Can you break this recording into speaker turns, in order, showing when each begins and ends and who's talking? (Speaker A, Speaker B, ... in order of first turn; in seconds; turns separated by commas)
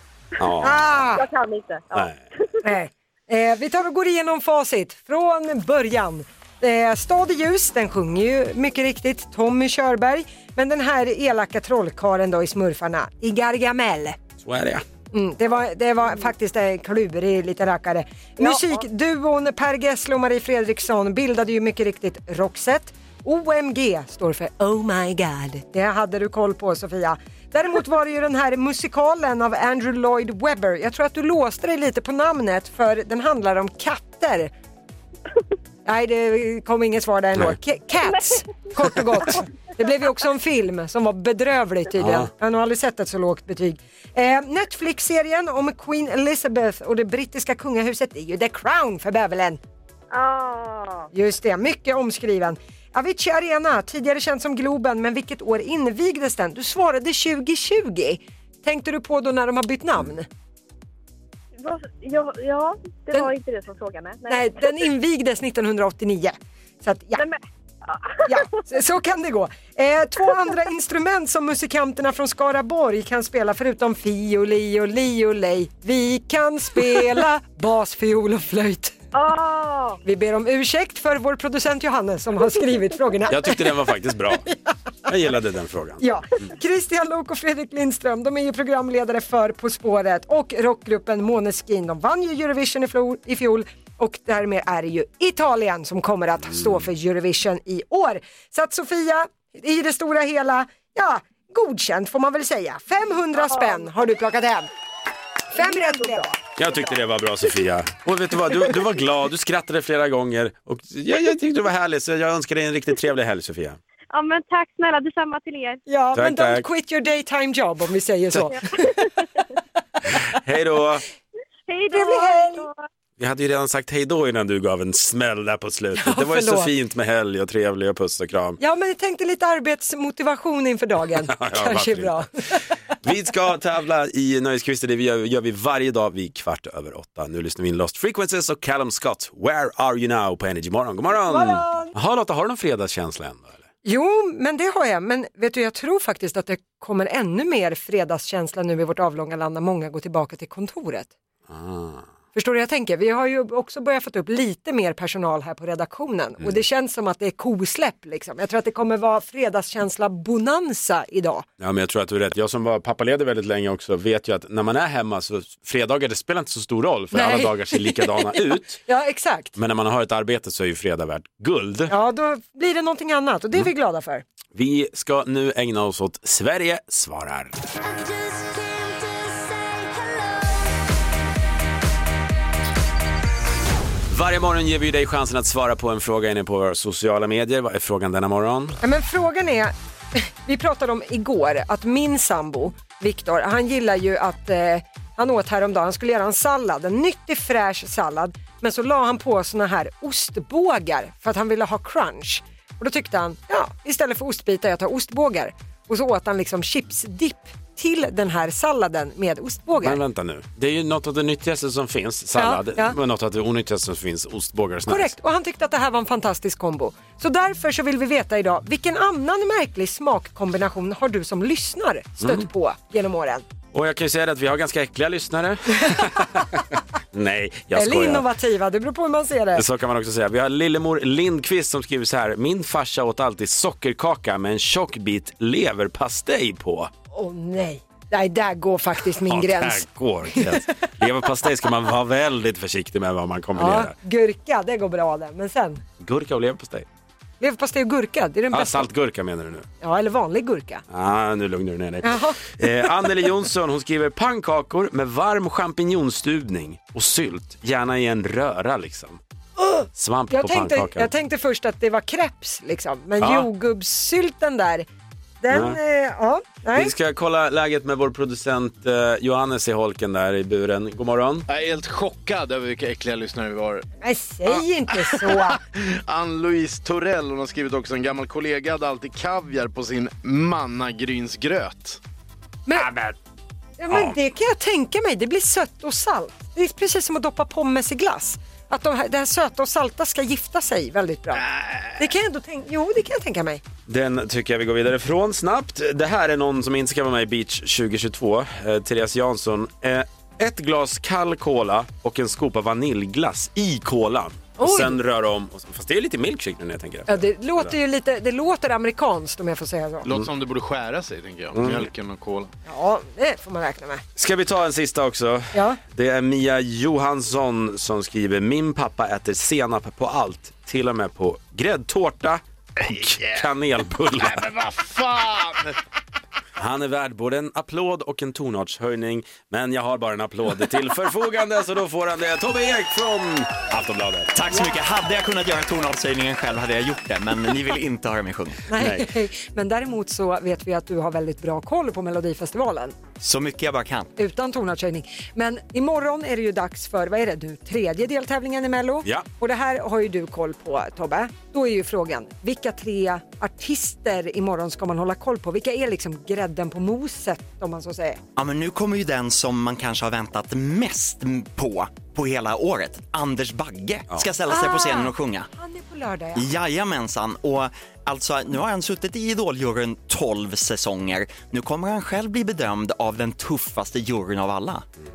Speaker A: 0.4-0.8, Speaker B: 0.6-1.2, Speaker C: 1.1-2.6, Speaker A: 1.9-2.2, Speaker B: 2.6-14.2, Speaker A: 14.4-14.8, Speaker B: 15.1-34.5, Speaker C: 18.4-18.8, Speaker B: 35.9-49.6, Speaker C: 38.0-38.7, Speaker A: 42.0-42.3, Speaker C: 50.1-51.1, Speaker B: 51.1-60.3, Speaker C: 61.6-64.5, Speaker B: 64.3-67.2, Speaker C: 67.2-68.6, Speaker B: 68.3-78.9, Speaker C: 79.1-80.0, Speaker B: 80.0-83.8, Speaker A: 83.3-84.4, Speaker A: 85.1-86.0, Speaker B: 86.0-104.7, Speaker C: 103.4-103.8, Speaker B: 105.5-106.4, Speaker C: 105.5-106.3, Speaker A: 106.6-113.8, Speaker C: 114.1-115.8, Speaker B: 115.9-119.1, Speaker A: 116.1-116.7, Speaker A: 120.1-121.0, Speaker C: 121.7-122.8, Speaker B: 121.9-122.7, Speaker A: 123.2-128.6, Speaker B: 126.0-126.7, Speaker B: 128.6-132.3, Speaker A: 131.3-132.2, Speaker A: 133.0-143.6, Speaker B: 141.2-141.9, Speaker B: 143.8-151.1, Speaker A: 151.5-152.1, Speaker B: 152.3-161.4, Speaker A: 161.6-168.8, Speaker B: 167.1-169.5, Speaker A: 169.6-171.9, Speaker B: 171.9-174.2, Speaker A: 174.5-177.5, Speaker A: 184.1-188.8, Speaker B: 188.8-210.0, Speaker A: 209.8-215.1, Speaker B: 212.4-212.9, Speaker B: 214.9-223.4, Speaker A: 222.2-222.5, Speaker A: 223.7-228.2, Speaker B: 227.7-229.6, Speaker A: 229.5-236.9, Speaker B: 237.1-240.6, Speaker A: 239.2-243.9, Speaker B: 243.6-245.8, Speaker A: 246.0-246.8, Speaker B: 247.4-248.9, Speaker A: 248.5-249.7, Speaker B: 249.8-250.8, Speaker A: 250.9-259.2, Speaker B: 252.0-252.9, Speaker B: 259.6-264.9, Speaker A: 259.9-261.1, Speaker A: 263.2-263.5, Speaker B: 265.4-266.9, Speaker A: 265.5-265.8, Speaker A: 266.7-271.5, Speaker D: 271.5-273.9, Speaker B: 274.0-275.6, Speaker D: 274.4-282.0, Speaker B: 283.8-291.5, Speaker A: 283.9-284.1, Speaker B: 292.0-293.6, Speaker A: 293.9-307.7, Speaker B: 304.6-305.0, Speaker B: 307.1-310.1, Speaker D: 310.0-312.5, Speaker A: 311.5-311.9, Speaker B: 312.7-314.0, Speaker A: 314.1-324.4, Speaker B: 315.5-315.8, Speaker D: 322.8-323.5, Speaker D: 324.2-325.8, Speaker A: 326.6-334.3, Speaker E: 334.3-338.6, Speaker B: 338.7-343.1, Speaker A: 338.8-339.1, Speaker E: 343.2-344.1, Speaker B: 344.2-358.2, Speaker E: 358.4-365.5, Speaker B: 364.5-366.5, Speaker E: 366.3-374.8